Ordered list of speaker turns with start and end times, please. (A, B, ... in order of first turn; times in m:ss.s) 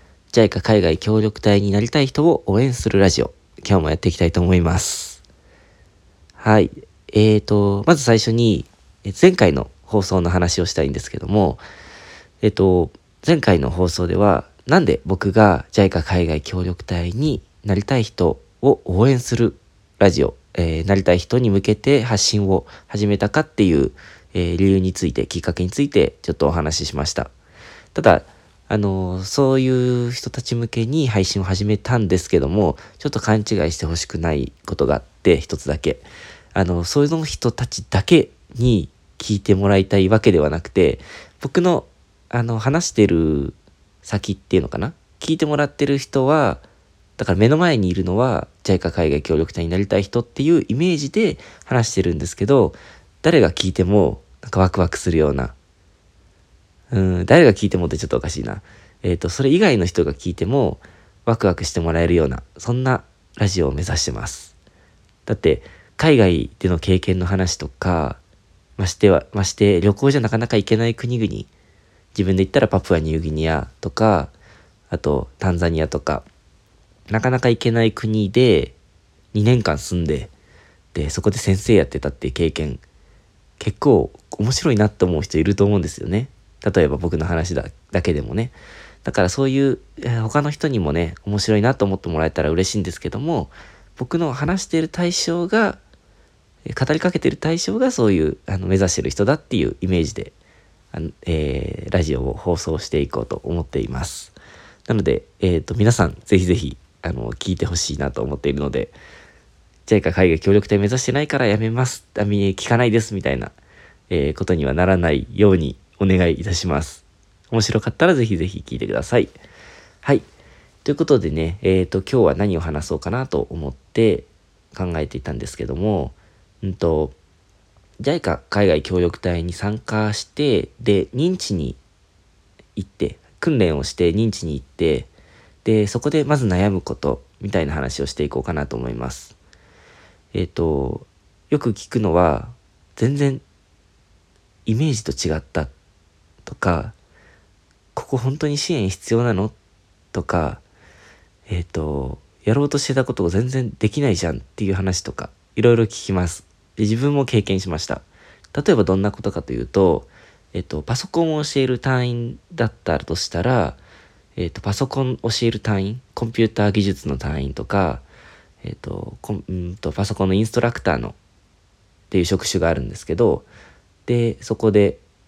0:00.3-0:05.2 A
0:06.4-0:11.6 A
0:12.4-0:27.3 A
0:27.9-0:46.6 A
0:47.2-0:55.5 A
0:56.9-1:04.5 A
1:05.2-1:08.2 A
1:08.8-1:11.5 A
1:12.1-1:14.3 A
1:14.9-1:16.2 A
1:17.1-1:18.8 A
1:19.3-1:20.3 A
1:20.9-1:22.8 A
1:23.6-1:35.8 A
1:36.6-1:40.3 A
1:40.9-1:44.3 A
1:44.9-1:48.9 A
1:49.8-1:53.5 A
1:54.1-1:59.3 A
2:00.8-2:07.2 A
2:08.0-2:11.8 A
2:12.8-2:15.1 A
2:15.6-2:19.4 A
2:20.3-2:23.4 A
2:24.6-2:25.7 A
2:26.4-2:26.9 A
2:27.9-2:29.5 A
2:30.1-2:30.6 A
2:31.5-2:43.8 A
2:44.4-2:48.0 A
2:48.6-2:51.2 A
2:52.1-2:53.5 A
2:54.0-2:55.0 A